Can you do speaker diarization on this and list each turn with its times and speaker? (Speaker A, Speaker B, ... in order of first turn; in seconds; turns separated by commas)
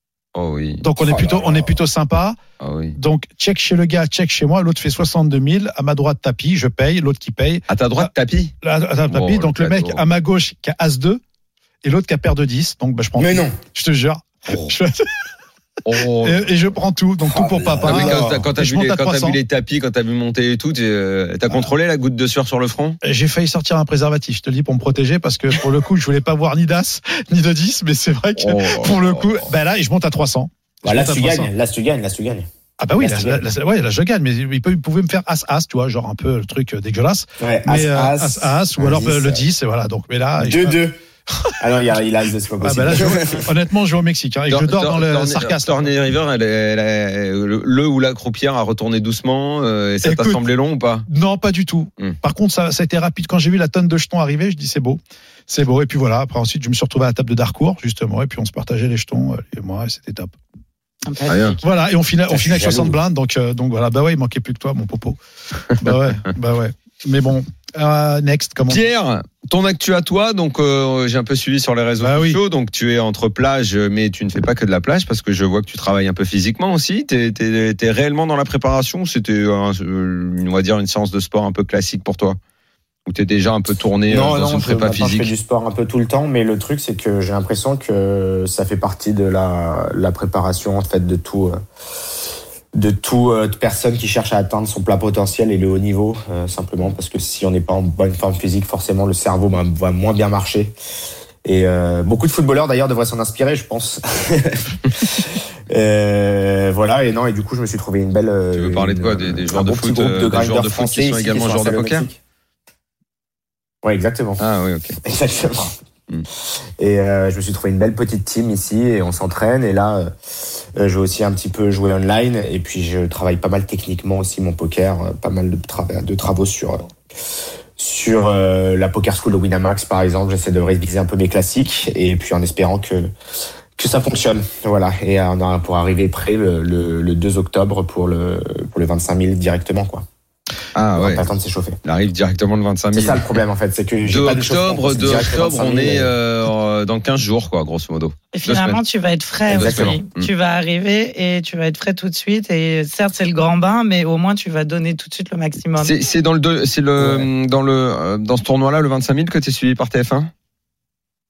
Speaker A: 0.3-0.8, Speaker B: 0.8-2.4, Speaker C: 1.0-1.8, Speaker A: 2.6-3.0, Speaker B: 2.9-8.1, Speaker A: 7.7-8.5, Speaker B: 8.6-11.2, Speaker A: 9.1-10.0, Speaker B: 11.8-15.3, Speaker C: 13.2-13.6, Speaker A: 14.5-14.8, Speaker A: 15.8-16.5, Speaker B: 15.9-19.4, Speaker C: 17.3-18.4, Speaker A: 17.8-23.0, Speaker B: 21.5-21.7, Speaker B: 23.0-31.5, Speaker A: 28.4-29.5, Speaker C: 30.9-32.5, Speaker B: 32.8-40.8, Speaker C: 33.0-33.4, Speaker C: 37.4-39.4, Speaker C: 40.4-41.0, Speaker C: 41.6-43.5, Speaker B: 42.6-45.9, Speaker A: 44.5-51.1, Speaker B: 50.0-50.4, Speaker B: 51.1-60.4, Speaker D: 61.1-61.6, Speaker A: 61.3-61.6, Speaker B: 61.6-65.2, Speaker A: 62.3-62.9, Speaker B: 65.8-68.8, Speaker A: 65.8-66.2, Speaker A: 68.7-82.4, Speaker B: 72.0-72.4, Speaker A: 83.1-85.3, Speaker C: 84.1-91.6, Speaker C: 92.7-100.7, Speaker C: 101.5-112.2, Speaker A: 108.5-112.1, Speaker C: 113.8-114.4, Speaker A: 114.4-115.0, Speaker C: 115.0-115.7, Speaker C: 116.8-126.9, Speaker C: 127.8-133.1, Speaker C: 133.8-140.1, Speaker A: 140.8-141.3, Speaker C: 141.0-141.8, Speaker A: 141.8-143.3, Speaker C: 142.9-146.1, Speaker A: 144.1-148.8, Speaker D: 148.3-155.9, Speaker A: 149.5-150.3, Speaker C: 149.5-150.0, Speaker A: 155.8-160.3, Speaker C: 157.0-157.3